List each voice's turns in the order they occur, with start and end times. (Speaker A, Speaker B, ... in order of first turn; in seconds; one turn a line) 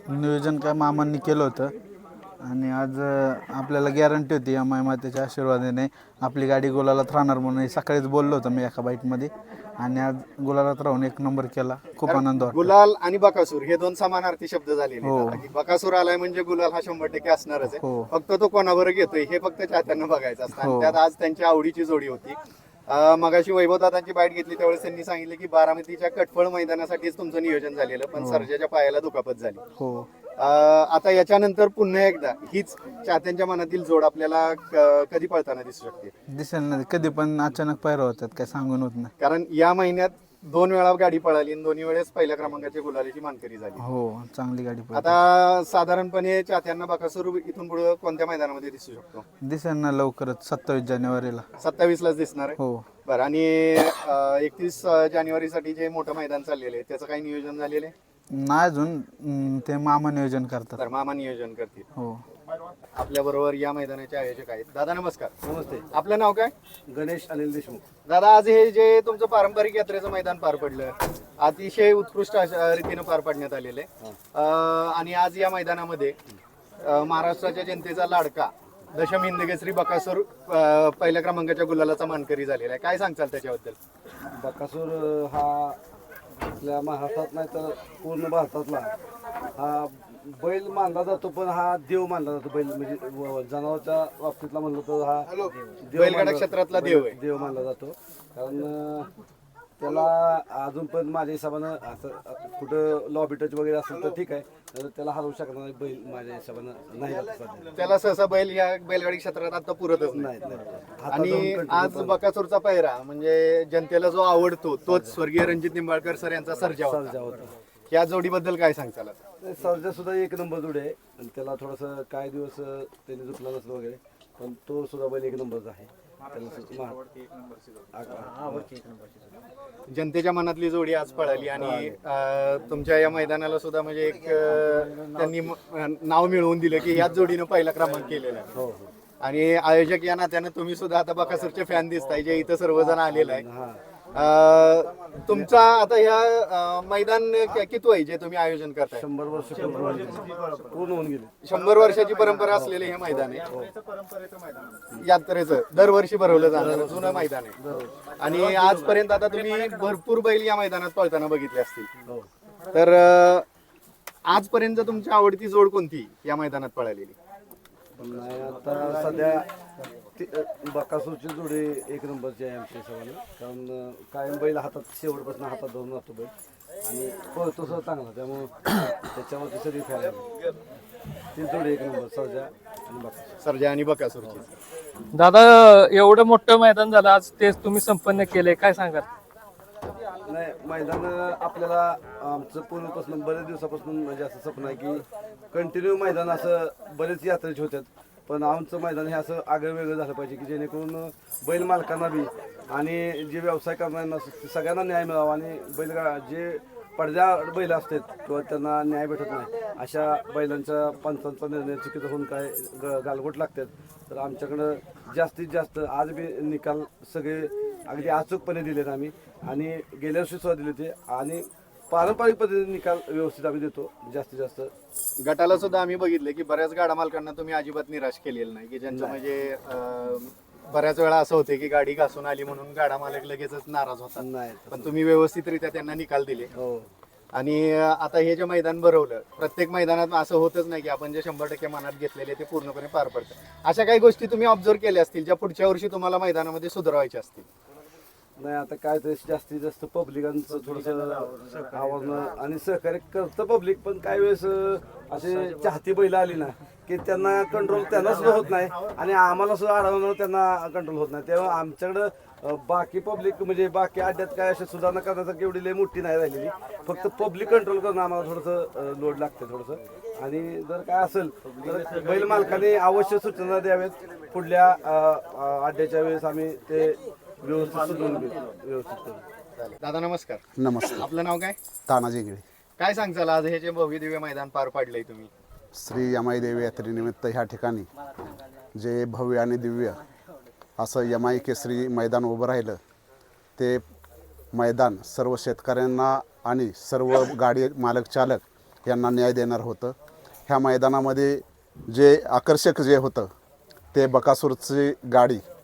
Speaker A: 0.1-1.7
Speaker A: 2.4-12.7
Speaker B: 12.1-22.4
Speaker A: 15.0-15.4
Speaker A: 17.7-18.1
Speaker A: 20.6-21.0
Speaker B: 22.9-29.6
Speaker A: 28.2-28.5
Speaker A: 29.8-30.1
Speaker B: 30.4-36.1
Speaker A: 36.3-39.1
Speaker B: 39.2-43.8
Speaker A: 43.8-45.1
Speaker B: 44.9-49.2
Speaker A: 49.4-51.5
Speaker B: 51.6-57.9
Speaker A: 52.6-52.8
Speaker A: 58.3-60.8
Speaker B: 60.8-61.9
Speaker A: 62.0-62.2
Speaker B: 62.9-65.3
Speaker C: 65.4-65.8
Speaker B: 65.9-66.5
Speaker C: 66.9-67.8
Speaker B: 68.0-76.2
Speaker B: 76.8-83.8
Speaker C: 84.3-85.8
Speaker C: 86.5-88.9
Speaker C: 89.5-99.1
Speaker B: 95.9-97.2
Speaker C: 99.8-107.8
Speaker B: 107.7-110.3
Speaker C: 110.1-112.2
Speaker B: 111.1-117.1
Speaker C: 114.9-115.2
Speaker C: 116.8-117.5
Speaker B: 117.9-119.2
Speaker C: 119.4-127.0
Speaker C: 127.9-128.7
Speaker B: 129.9-138.6
Speaker C: 131.5-132.0
Speaker C: 138.5-138.9
Speaker B: 139.2-143.4
Speaker C: 142.8-143.8
Speaker B: 144.1-149.0
Speaker C: 148.9-151.3
Speaker B: 151.4-153.5
Speaker C: 152.5-153.7
Speaker B: 155.0-157.6
Speaker C: 156.3-157.9
Speaker B: 158.2-161.9
Speaker B: 162.7-163.4
Speaker B: 164.2-167.2
Speaker C: 168.0-169.5
Speaker C: 170.2-176.3
Speaker C: 176.8-180.3
Speaker C: 181.3-183.3
Speaker B: 183.4-184.5
Speaker D: 185.1-189.0
Speaker C: 190.2-224.7
Speaker B: 225.2-236.5
Speaker C: 228.9-229.2
Speaker C: 234.2-234.9
Speaker C: 236.5-236.9
Speaker B: 237.3-247.4
Speaker C: 248.4-279.2
Speaker B: 279.6-281.6
Speaker E: 280.6-281.0
Speaker E: 281.9-282.4
Speaker B: 282.8-285.3
Speaker E: 285.7-287.9
Speaker E: 288.7-290.0
Speaker E: 290.8-292.8
Speaker E: 293.6-293.8
Speaker E: 294.5-299.9
Speaker E: 300.5-303.3
Speaker E: 303.9-305.4